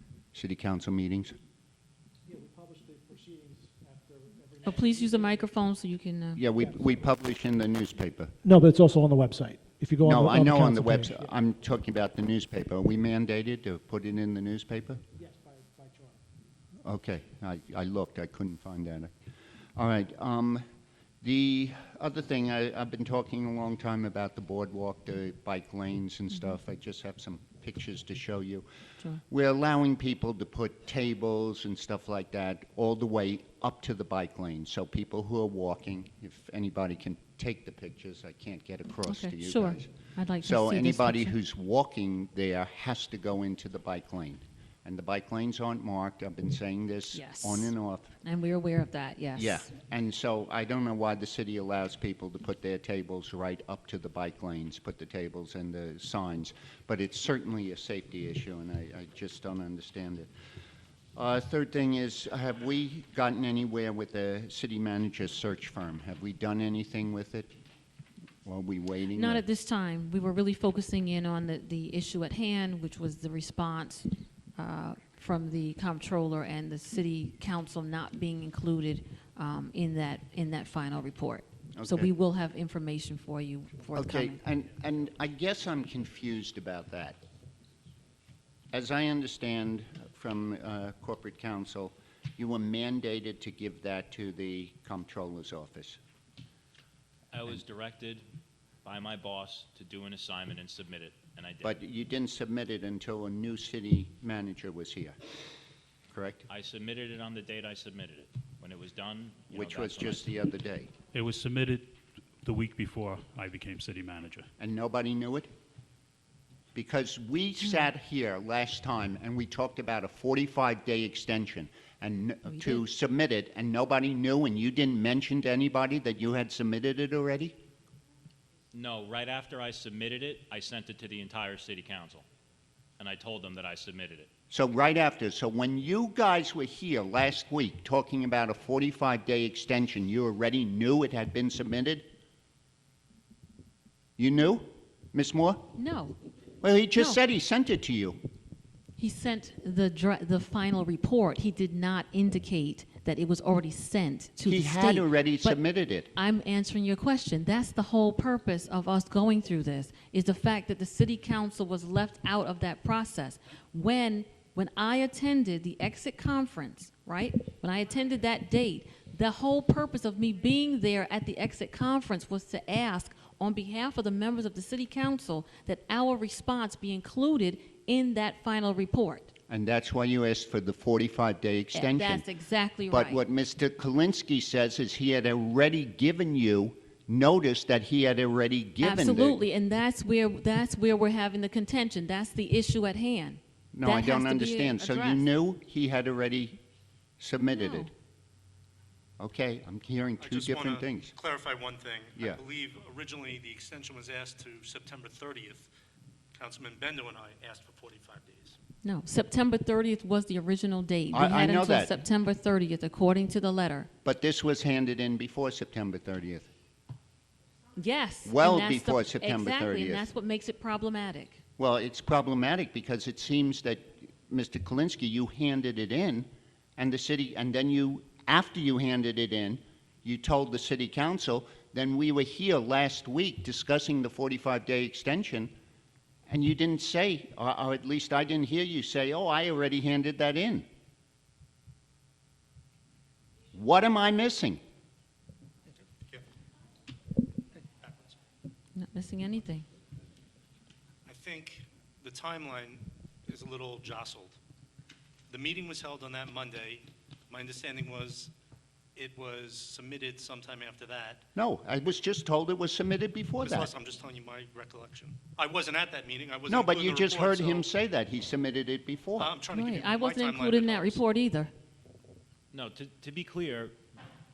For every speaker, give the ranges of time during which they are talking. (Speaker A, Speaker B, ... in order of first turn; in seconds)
Speaker A: 0.3-1.3, 6.3-8.3, 10.0-15.0, 16.8-19.1, 19.8-20.6, 21.2-28.6, 29.3-39.9, 40.4-48.1, 49.3-60.3, 61.1-67.5, 68.4-69.4, 81.7-82.1, 83.9-87.2, 88.7-96.0, 101.6-105.2, 106.1-106.5, 109.5-110.9, 114.6-115.5, 116.7-127.5, 134.5-142.1, 144.2-145.7, 146.6-148.2, 154.4-156.1, 179.5-182.2, 182.9-189.4, 193.7-196.6, 197.2-197.9, 199.2-201.1, 211.1-211.9, 214.0-216.5, 218.2-220.1, 221.6-235.5, 236.3-240.7, 243.5-244.6, 261.4-263.7, 266.5-269.4
Speaker B: 2.3-5.5, 15.1-16.2, 200.2-205.7, 206.3-208.6, 247.8-248.2, 251.1-254.4, 255.3-258.3, 258.9-261.2, 263.4-267.7, 269.2-271.0
Speaker C: 4.6-6.4, 39.0-41.3, 47.1-49.7, 69.1-84.4, 122.5-122.8, 145.7-146.2, 149.0-155.6, 156.1-179.3, 181.7-183.2, 188.8-195.3, 197.6-197.9, 208.8-213.9, 217.8-221.4, 248.7-249.7, 269.5-271.5
Speaker D: 8.4-11.3
Speaker E: 97.3-98.2, 98.8-101.7, 106.5-110.2, 128.7-132.2, 133.0-134.3, 272.5-273.7
Speaker F: 111.1-114.5